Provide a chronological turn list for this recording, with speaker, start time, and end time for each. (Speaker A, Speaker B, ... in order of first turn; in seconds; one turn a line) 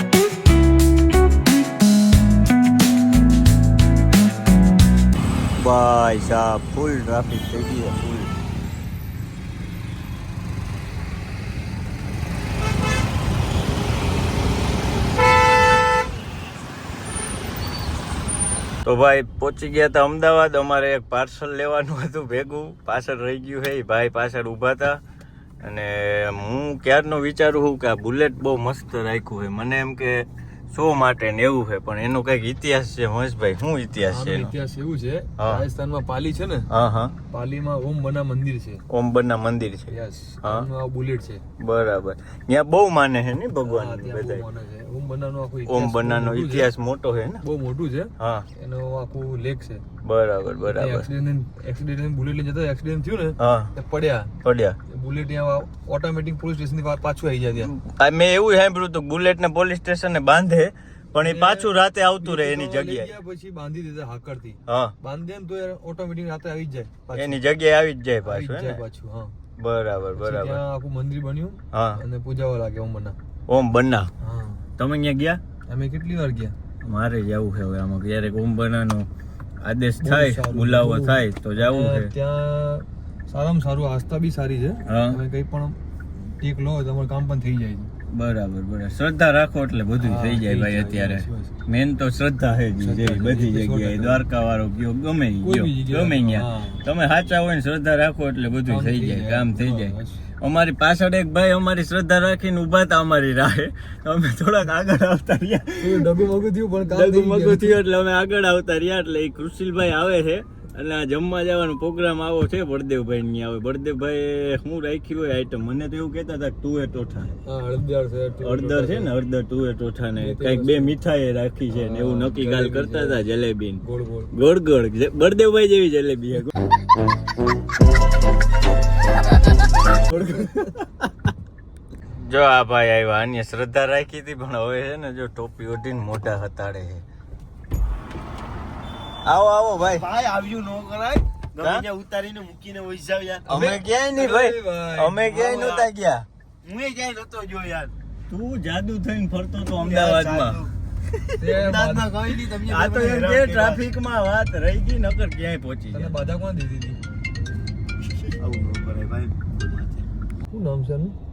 Speaker A: 5.6-8.3
Speaker A: 18.8-25.0
Speaker A: 25.6-34.5
Speaker B: 34.0-36.7
Speaker A: 35.4-35.6
Speaker A: 36.7-37.1
Speaker B: 37.3-38.8
Speaker A: 38.9-40.7
Speaker B: 39.9-41.4
Speaker A: 41.6-44.4
Speaker B: 43.6-46.7
Speaker A: 45.6-47.4
Speaker B: 47.4-49.8
Speaker A: 48.2-48.5
Speaker A: 50.0-51.1
Speaker B: 50.6-54.3
Speaker A: 53.4-53.7
Speaker A: 54.4-54.8
Speaker B: 54.9-57.7
Speaker A: 57.6-63.1
Speaker B: 61.2-67.4
Speaker A: 64.7-64.9
Speaker A: 67.2-68.8
Speaker B: 68.2-69.3
Speaker A: 69.6-70.6
Speaker B: 70.2-73.2
Speaker A: 71.7-72.0
Speaker A: 73.5-74.1
Speaker B: 74.2-74.6
Speaker A: 74.8-75.4
Speaker B: 75.7-76.5
Speaker A: 76.8-79.1
Speaker A: 79.6-82.1
Speaker B: 80.0-87.9
Speaker A: 84.9-85.2
Speaker A: 88.1-106.1
Speaker B: 90.0-91.5
Speaker B: 92.8-94.2
Speaker B: 95.4-96.8
Speaker B: 98.7-100.2
Speaker B: 105.8-107.8
Speaker A: 106.9-117.4
Speaker B: 117.4-119.1
Speaker A: 118.4-126.5
Speaker B: 120.1-121.0
Speaker B: 121.7-123.2
Speaker B: 123.8-124.3
Speaker A: 129.9-131.1
Speaker A: 132.1-137.0
Speaker A: 139.2-140.1
Speaker C: 139.9-143.6
Speaker A: 141.6-141.8
Speaker B: 143.5-145.4
Speaker A: 143.5-146.2
Speaker C: 145.4-145.9
Speaker C: 146.6-147.9
Speaker A: 148.3-150.6
Speaker C: 149.7-150.7
Speaker A: 151.2-151.6
Speaker B: 151.4-152.2
Speaker C: 151.6-153.8
Speaker A: 152.2-156.3
Speaker B: 155.9-157.0
Speaker C: 158.4-160.1
Speaker B: 160.5-161.2